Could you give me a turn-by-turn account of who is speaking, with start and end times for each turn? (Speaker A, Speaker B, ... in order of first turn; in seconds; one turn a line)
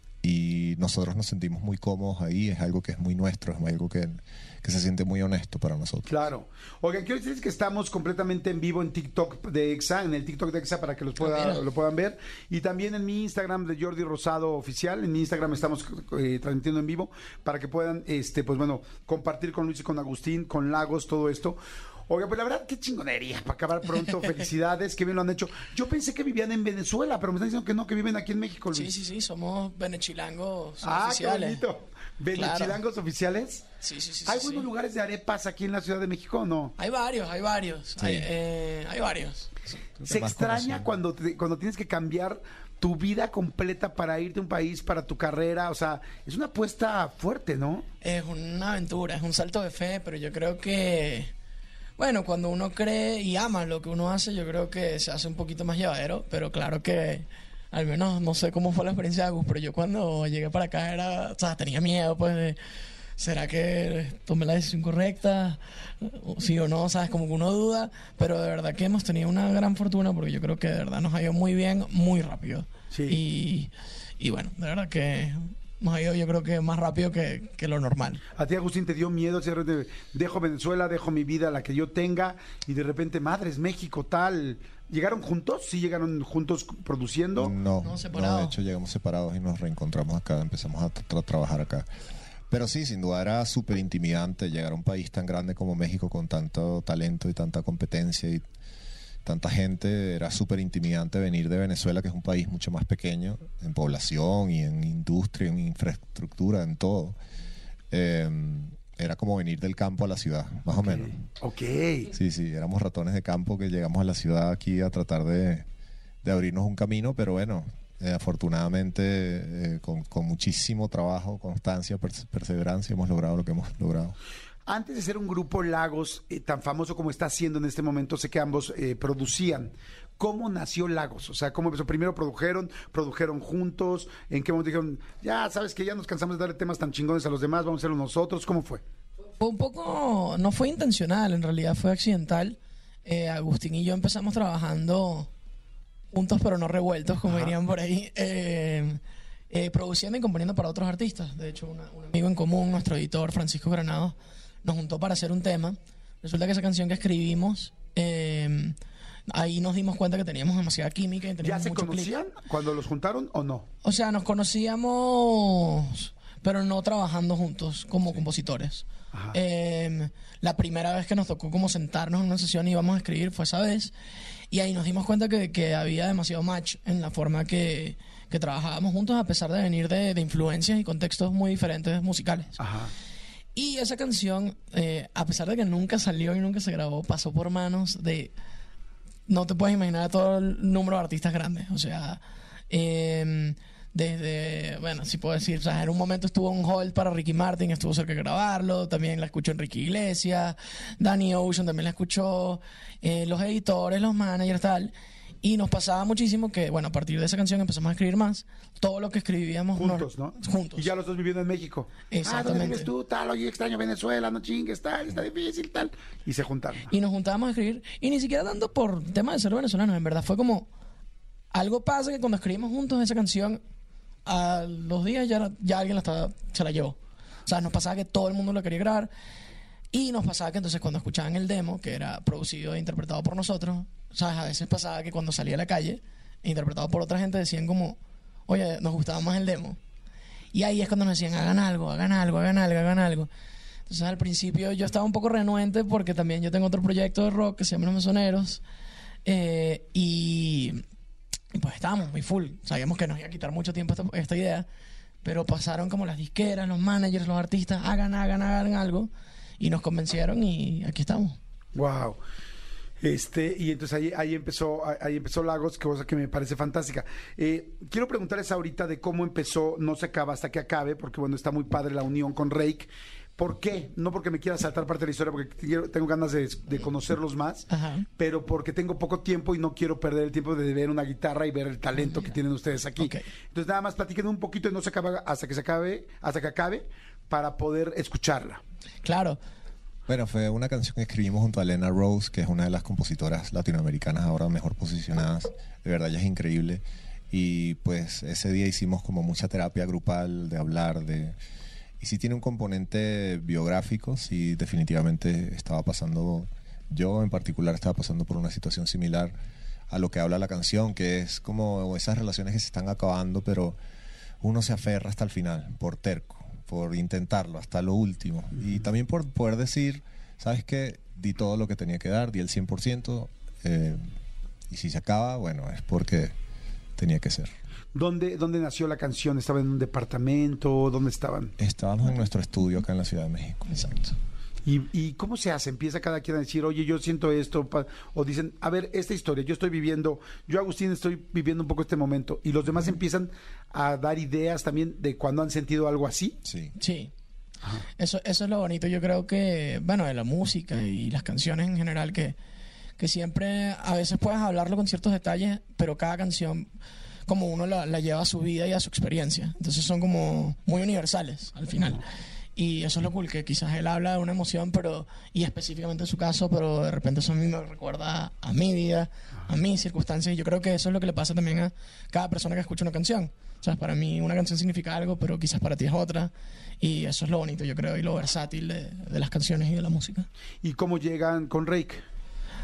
Speaker A: 0.2-6.1
Speaker B: 6.1-28.9
Speaker C: 11.2-11.6
Speaker C: 28.7-31.6
Speaker B: 30.8-33.6
Speaker C: 32.3-32.8
Speaker C: 33.8-34.7
Speaker B: 34.3-36.8
Speaker C: 36.8-39.8
Speaker A: 38.0-38.3
Speaker A: 40.0-40.9
Speaker B: 40.1-47.9
Speaker C: 48.0-51.3
Speaker C: 52.0-62.6
Speaker C: 63.2-78.2
Speaker B: 72.9-73.2
Speaker B: 78.4-87.5
Speaker A: 87.4-91.9
Speaker C: 87.8-88.5
Speaker A: 92.5-98.4
Speaker A: 99.2-107.2
Speaker A: 107.9-111.2
Speaker B: 110.8-112.1
Speaker A: 112.1-115.7
Speaker A: 116.2-124.2
Speaker B: 124.7-138.8
Speaker C: 139.4-145.3
Speaker C: 146.1-158.8
Speaker B: 147.3-147.5
Speaker C: 159.3-162.1
Speaker B: 161.4-163.7
Speaker C: 163.8-173.9
Speaker B: 169.1-169.4
Speaker C: 174.5-182.6
Speaker B: 182.6-182.9
Speaker C: 183.6-188.3
Speaker C: 189.3-210.9
Speaker B: 209.8-216.9
Speaker C: 212.1-212.9
Speaker C: 216.9-220.7
Speaker C: 221.5-223.6
Speaker C: 224.2-229.1
Speaker C: 229.9-239.8
Speaker C: 240.5-243.3
Speaker C: 243.9-248.6
Speaker C: 249.2-250.8
Speaker C: 251.5-254.7
Speaker C: 255.2-261.4
Speaker B: 261.8-262.2
Speaker B: 263.0-288.6
Speaker C: 277.7-278.1
Speaker C: 282.0-282.4
Speaker C: 283.0-283.2
Speaker C: 289.0-289.4
Speaker A: 290.1-301.4
Speaker A: 302.0-309.3
Speaker A: 309.9-313.8
Speaker A: 314.4-324.1
Speaker A: 324.7-326.3
Speaker A: 327.0-327.5
Speaker B: 327.9-331.6
Speaker A: 331.6-334.1
Speaker B: 334.6-346.4
Speaker A: 346.4-346.7
Speaker C: 346.8-347.1
Speaker C: 348.0-352.4
Speaker C: 353.0-356.7
Speaker C: 357.3-380.3
Speaker B: 380.6-382.0